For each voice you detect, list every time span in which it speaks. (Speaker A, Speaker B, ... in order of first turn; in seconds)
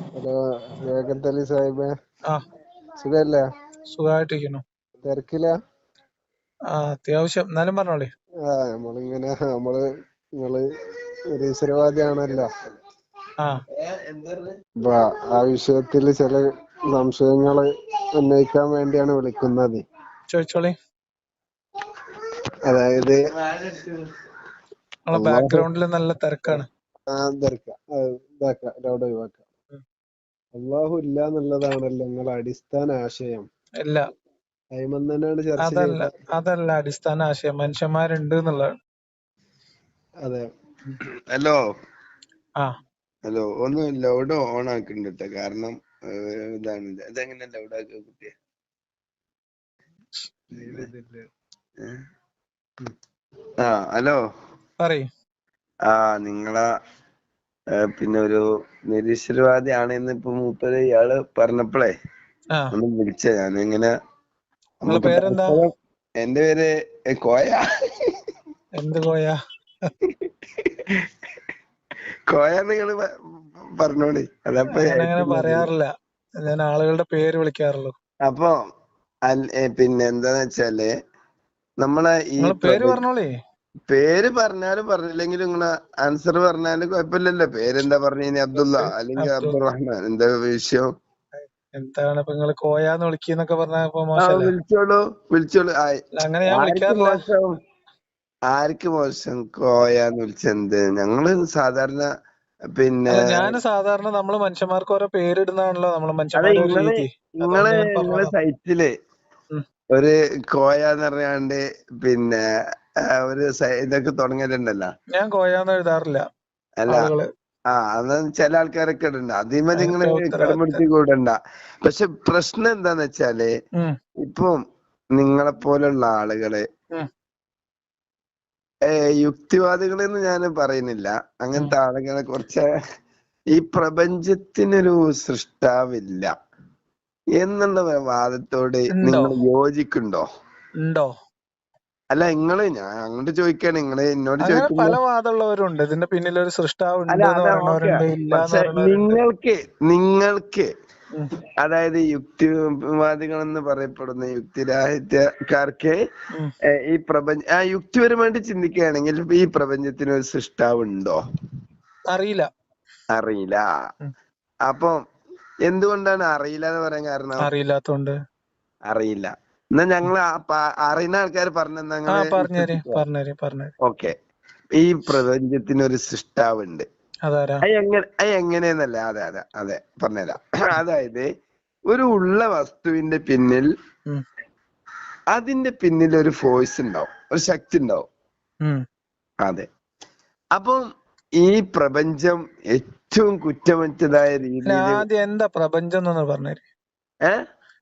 Speaker A: 0.1-1.9, 3.0-3.5, 5.0-5.6, 8.4-9.8, 10.4-10.7, 11.3-12.5, 14.8-19.8, 22.7-23.2, 25.3-25.6, 27.1-29.4, 30.5-33.5, 34.7-36.1, 40.2-40.5, 50.5-51.3
Speaker B: 3.9-4.6, 6.7-8.1, 20.3-20.7, 25.1-26.6, 35.6-38.7, 54.8-55.1, 64.8-65.6, 68.8-69.9, 74.7-75.9, 76.4-77.9, 82.4-83.3, 89.2-89.6, 91.4-94.5, 96.2-97.2, 103.1-108.3, 115.1-116.2, 116.9-117.2, 119.8-120.8, 138.9-139.3, 140.8-141.1, 144.4-149.2, 162.1-162.5, 167.4-168.1, 172.1-173.7, 177.2-177.6, 194.6-196.6
Speaker C: 13.8-14.5, 23.5-24.0, 41.3-41.6, 43.2-48.3, 53.6-54.2, 55.9-56.6, 57.7-61.9, 62.7-63.9, 64.8-68.1, 70.0-71.1, 72.3-75.7, 78.2-78.5, 79.2-80.9, 81.8-83.0, 83.9-90.9, 94.2-97.5, 98.5-102.1, 102.7-103.5, 106.4-108.9, 109.9-112.4, 113.0-114.9, 116.8-117.1, 117.7-123.5, 124.2-124.6, 125.1-126.6, 128.8-132.7, 133.5-136.3, 137.4-140.2, 142.1-145.0, 147.1-150.7, 151.6-156.0, 156.7-161.2, 163.1-163.7, 164.7-165.0, 165.7-167.5, 168.9-173.0, 173.8-174.1, 174.7-176.8, 177.6-181.3, 181.9-183.7, 185.3-188.1, 190.5-190.8, 191.4-195.0